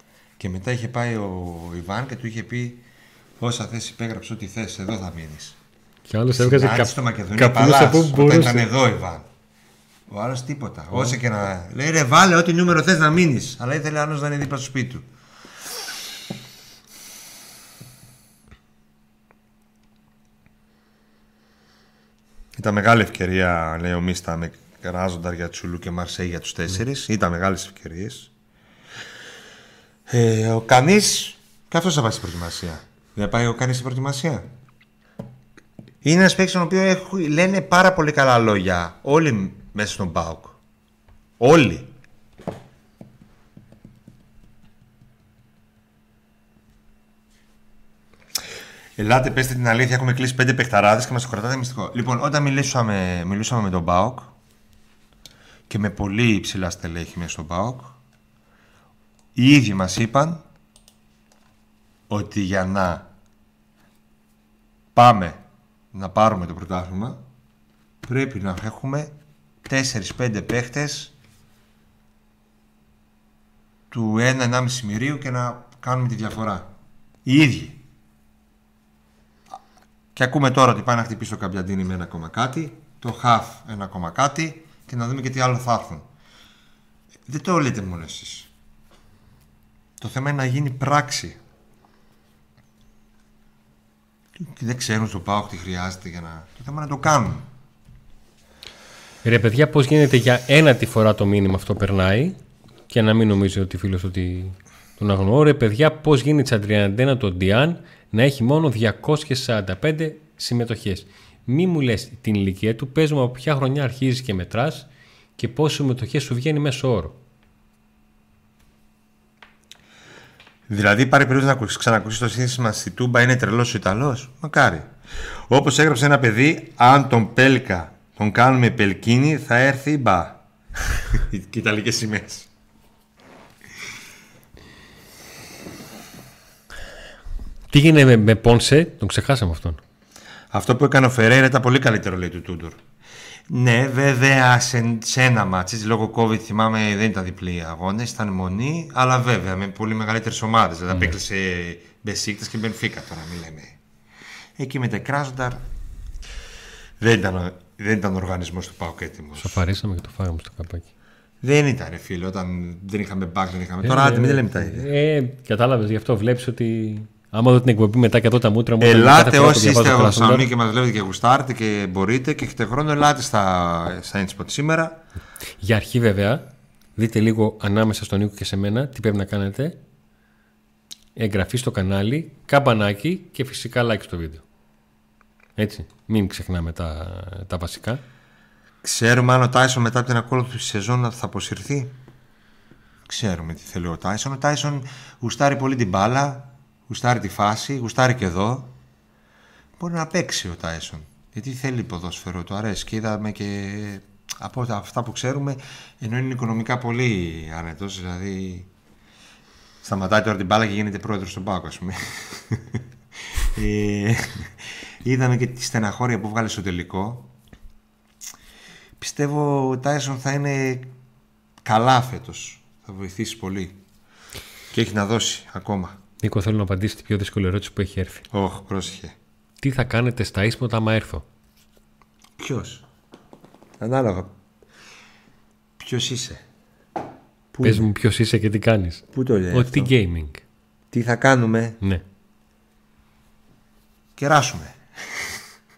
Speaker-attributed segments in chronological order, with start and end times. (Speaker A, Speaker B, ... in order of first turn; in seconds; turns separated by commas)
Speaker A: 0.4-2.8, Speaker A: 3.4-5.6, Speaker B: 6.1-8.7, Speaker A: 6.4-9.3, Speaker A: 10.1-15.1, Speaker A: 22.6-28.3, Speaker A: 30.1-34.5, Speaker A: 36.0-40.6, Speaker A: 41.4-41.9, Speaker A: 49.0-54.3, Speaker A: 55.7-58.0, Speaker A: 59.4-60.4, Speaker A: 62.1-63.1, Speaker A: 65.0-65.4, Speaker A: 65.9-67.2, Speaker A: 68.0-69.1, Speaker A: 69.7-71.1, Speaker A: 73.9-76.7, Speaker A: 77.2-77.8, Speaker A: 80.1-86.1, Speaker A: 87.3-88.5, Speaker A: 90.0-91.4, Speaker A: 94.4-97.5, Speaker B: 99.2-102.4, Speaker B: 102.9-117.2, Speaker A: 120.7-124.9, Speaker A: 125.5-132.5, Speaker B: 137.7-139.8, Speaker A: 140.5-142.8, Speaker A: 143.5-153.8, Speaker A: 154.6-155.6, Speaker A: 157.0-159.6, Speaker B: 159.4-160.9, Speaker A: 161.4-164.9, Speaker B: 163.8-170.5, Speaker A: 168.8-175.0, Speaker B: 175.6-179.8, Speaker B: 181.2-184.4, Speaker B: 185.6-188.0, Speaker A: 188.8-191.9, Speaker A: 193.1-198.7, Speaker A: 199.8-208.7, Speaker A: 209.8-212.8, Speaker A: 213.4-217.3, Speaker A: 219.0-220.9, Speaker A: 221.6-223.8, Speaker A: 224.7-226.0, Speaker B: 226.2-228.2, Speaker A: 228.3-229.2, Speaker B: 229.6-231.2, Speaker A: 232.4-232.8, Speaker A: 233.8-234.3, Speaker A: 235.8-236.4, Speaker A: 237.5-237.9, Speaker B: 237.6-240.4, Speaker A: 239.1-239.9, Speaker A: 240.9-241.8, Speaker A: 244.2-245.3